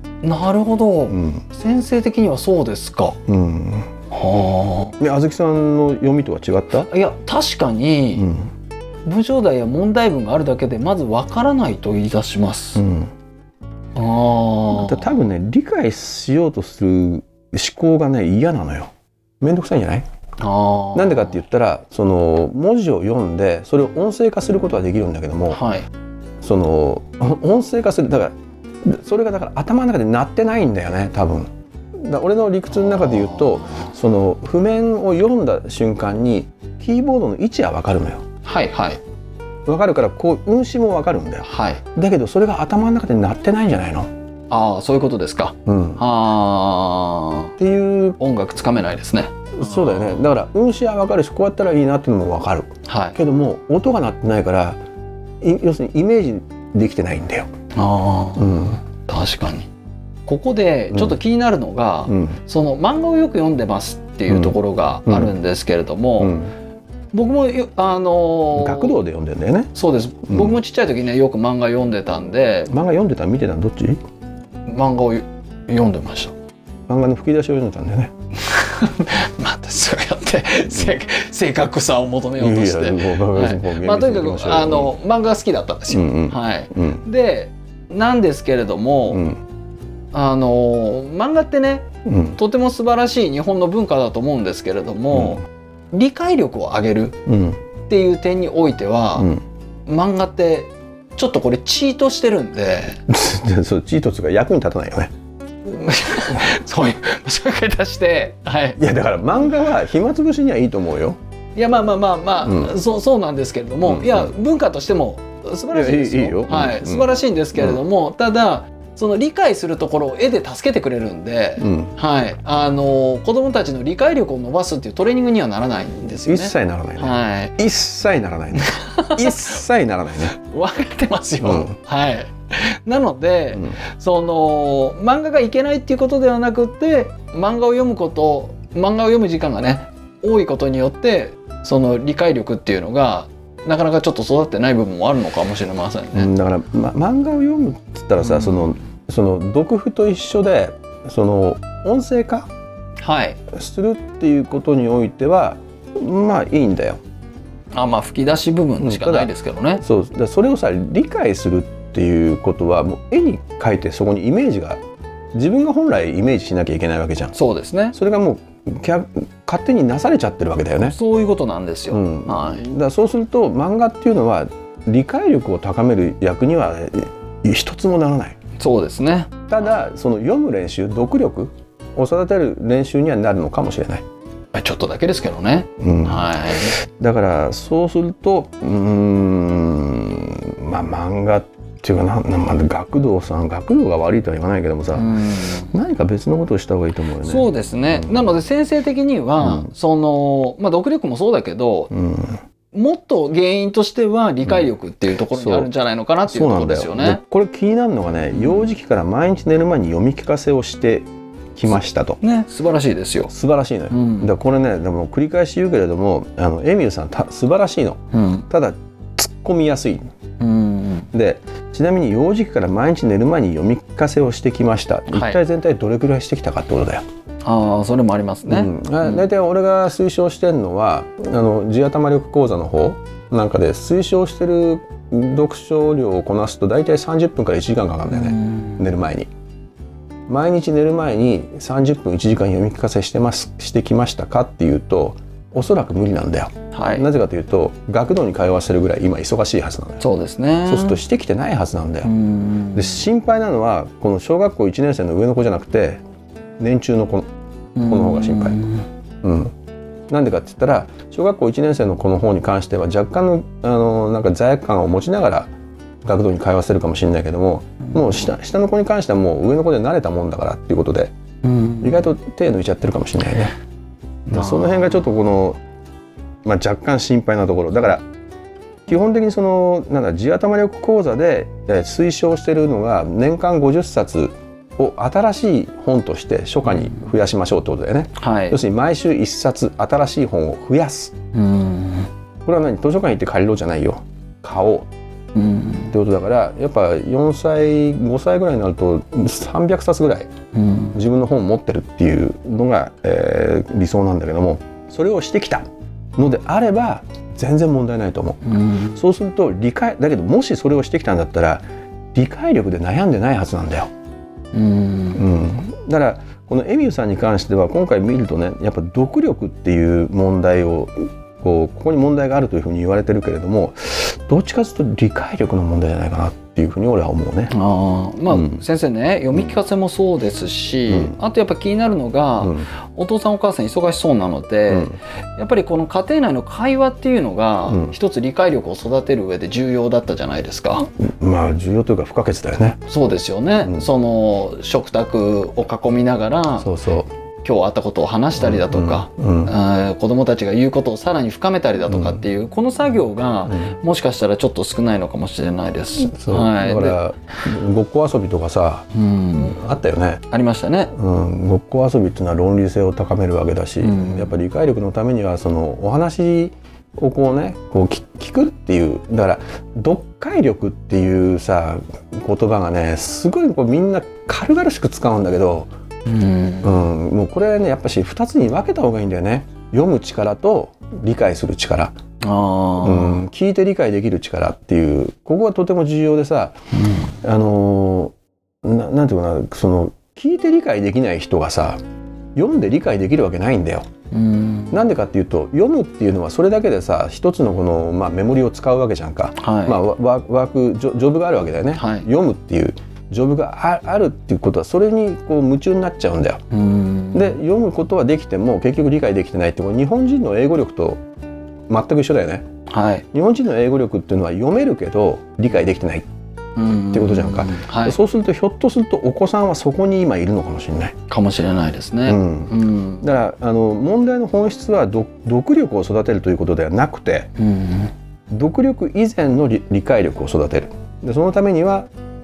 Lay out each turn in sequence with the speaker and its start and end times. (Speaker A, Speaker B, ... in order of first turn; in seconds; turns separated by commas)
Speaker A: 0.2-3.2, Speaker B: 1.1-1.4, Speaker B: 3.3-3.9, Speaker A: 4.1-5.0, Speaker B: 5.0-6.9, Speaker A: 6.9-8.3, Speaker B: 8.2-8.5, Speaker A: 9.1-12.8, Speaker B: 12.8-13.1, Speaker A: 14.0-15.1, Speaker B: 14.7-20.1, Speaker A: 20.4-21.4, Speaker B: 20.9-25.6, Speaker A: 25.5-25.9, Speaker B: 26.4-38.2, Speaker A: 32.8-33.9, Speaker A: 38.4-39.0, Speaker B: 39.7-44.1, Speaker A: 41.4-41.8, Speaker A: 44.5-47.5, Speaker B: 45.7-46.0, Speaker B: 47.6-48.2, Speaker A: 48.2-50.3, Speaker B: 49.5-54.8, Speaker A: 52.9-53.2, Speaker B: 55.4-57.5, Speaker A: 57.8-59.7, Speaker B: 58.4-58.8, Speaker A: 60.3-66.4, Speaker B: 60.9-61.2, Speaker B: 62.1-62.4, Speaker B: 64.3-64.6, Speaker B: 65.1-65.3, Speaker B: 66.2-66.5, Speaker A: 67.1-69.0, Speaker B: 68.5-69.7, Speaker A: 69.8-72.7, Speaker B: 70.3-70.6, Speaker B: 72.7-74.0, Speaker A: 74.7-76.3, Speaker B: 76.9-78.1, Speaker A: 78.4-89.3, Speaker B: 82.4-85.0, Speaker B: 85.9-87.0, Speaker B: 89.1-89.4, Speaker A: 90.1-97.2, Speaker B: 92.0-92.4, Speaker B: 95.1-95.4, Speaker B: 97.3-97.6, Speaker A: 97.9-99.3, Speaker A: 99.9-103.0, Speaker B: 103.1-105.1, Speaker A: 105.7-108.8, Speaker B: 108.8-111.2, Speaker A: 111.6-127.6, Speaker B: 112.4-112.7, Speaker B: 113.8-114.3, Speaker B: 115.7-117.8, Speaker B: 121.6-121.9, Speaker B: 126.3-130.3, Speaker A: 128.6-129.6, Speaker A: 130.3-146.3, Speaker B: 131.4-131.7, Speaker B: 146.1-152.5, Speaker A: 148.2-148.7, Speaker A: 153.0-153.4, Speaker B: 153.5-157.0, Speaker A: 157.7-159.8, Speaker B: 158.8-159.3, Speaker B: 159.8-164.8, Speaker B: 165.3-167.3, Speaker A: 167.3-168.0, Speaker B: 167.9-171.0, Speaker A: 170.8-172.7, Speaker B: 171.9-178.4, Speaker A: 178.6-179.3, Speaker B: 179.5-184.0, Speaker A: 184.5-186.8, Speaker B: 185.8-195.1, Speaker A: 194.9-195.7, Speaker B: 195.7-198.3, Speaker A: 197.2-201.9, Speaker B: 199.4-199.7, Speaker B: 201.9-202.4, Speaker A: 202.7-207.2, Speaker B: 205.3-205.7, Speaker B: 206.3-212.2, Speaker A: 208.3-208.6, Speaker A: 212.2-213.3, Speaker B: 213.3-220.1, Speaker A: 213.9-214.3, Speaker A: 218.1-218.5, Speaker A: 220.4-221.1, Speaker B: 221.1-227.0, Speaker A: 225.1-225.4, Speaker A: 227.4-229.2, Speaker B: 228.5-239.3, Speaker A: 238.1-238.9, Speaker B: 240.3-250.0, Speaker A: 246.7-247.1, Speaker A: 250.0-251.0, Speaker B: 250.7-252.1, Speaker A: 252.0-253.0, Speaker B: 252.7-256.0, Speaker B: 256.6-257.3, Speaker A: 257.8-258.9, Speaker B: 257.9-258.6, Speaker B: 259.2-259.5, Speaker B: 260.1-265.5, Speaker B: 266.0-271.1, Speaker A: 271.4-272.1, Speaker B: 271.8-273.5, Speaker A: 274.3-275.1, Speaker B: 274.3-275.6, Speaker B: 276.4-278.1, Speaker B: 278.9-291.1, Speaker A: 288.2-288.6, Speaker A: 291.3-292.1, Speaker B: 292.4-294.9, Speaker A: 295.4-295.9, Speaker B: 295.9-300.3, Speaker A: 300.5-301.0, Speaker B: 300.9-305.7, Speaker B: 306.2-311.6, Speaker A: 308.4-309.0, Speaker B: 312.1-313.9, Speaker A: 314.5-315.2, Speaker B: 315.1-327.5, Speaker A: 327.5-340.9, Speaker B: 328.3-328.6, Speaker B: 330.9-331.1, Speaker B: 332.4-332.7, Speaker B: 341.0-342.8, Speaker A: 342.9-346.7, Speaker B: 343.6-343.9, Speaker B: 346.6-347.1, Speaker A: 347.4-357.0, Speaker B: 348.4-349.5, Speaker B: 351.9-352.2, Speaker B: 353.5-353.7, Speaker B: 356.1-360.2, Speaker A: 358.9-359.6, Speaker A: 360.3-360.9, Speaker B: 360.9-375.7, Speaker A: 363.8-364.3, Speaker A: 376.1-376.8, Speaker B: 376.6-381.9, Speaker A: 382.2-383.2, Speaker B: 382.8-386.5, Speaker A: 386.8-387.1, Speaker B: 387.2-391.8, Speaker B: 392.4-393.9, Speaker A: 394.1-394.9, Speaker B: 394.7-406.4, Speaker A: 399.4-399.8, Speaker A: 401.8-402.1, Speaker A: 406.5-407.4, Speaker B: 407.1-411.0, Speaker B: 411.7-412.5, Speaker A: 412.7-413.1, Speaker B: 413.1-416.1, Speaker A: 416.6-418.0, Speaker B: 416.9-421.0, Speaker A: 421.1-423.1, Speaker B: 422.1-427.3, Speaker A: 427.4-427.9, Speaker B: 428.3-431.9